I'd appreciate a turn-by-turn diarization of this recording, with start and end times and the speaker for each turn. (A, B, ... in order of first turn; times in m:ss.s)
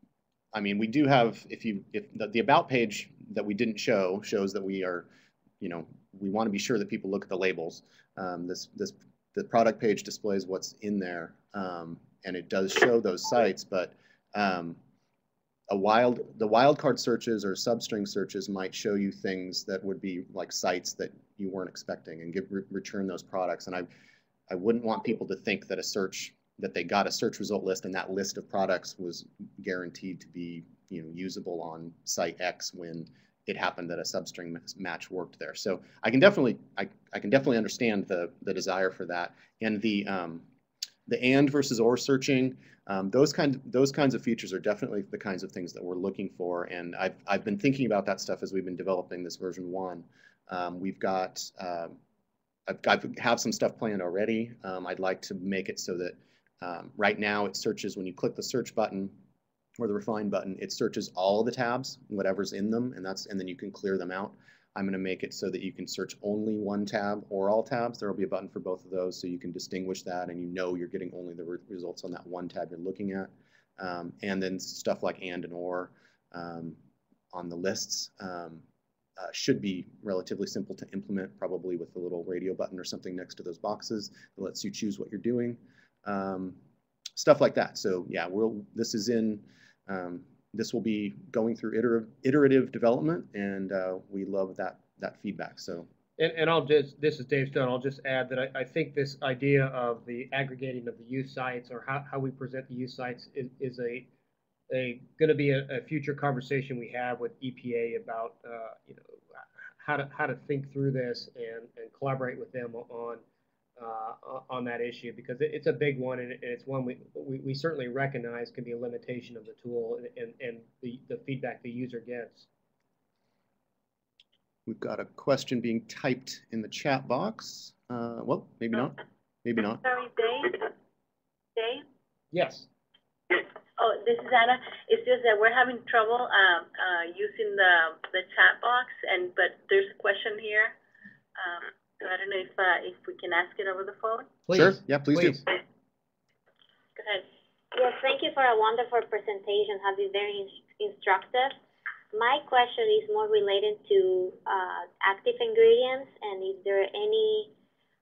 0:00.5-0:05.1 A
0:05.6-0:14.8 A
0:15.7-0:23.9 A
0:24.5-0:40.5 A
0:41.1-0:52.0 A
0:52.7-0:59.2 A
0:59.8-1:16.8 A
1:17.3-1:18.6 A
1:19.2-1:26.6 A
1:27.2-1:35.9 A
1:36.2-1:44.1 B
1:44.7-1:53.2 B
1:53.8-2:02.5 B
2:04.7-2:09.8 A
2:09.8-2:10.7 C
2:11.6-2:11.8 C
2:12.3-2:12.7 B
2:13.3-2:20.8 C
2:21.4-2:24.4 C
2:24.5-2:25.4 A
2:27.0-2:27.2 C
2:27.7-2:31.6 D
2:32.1-2:37.5 D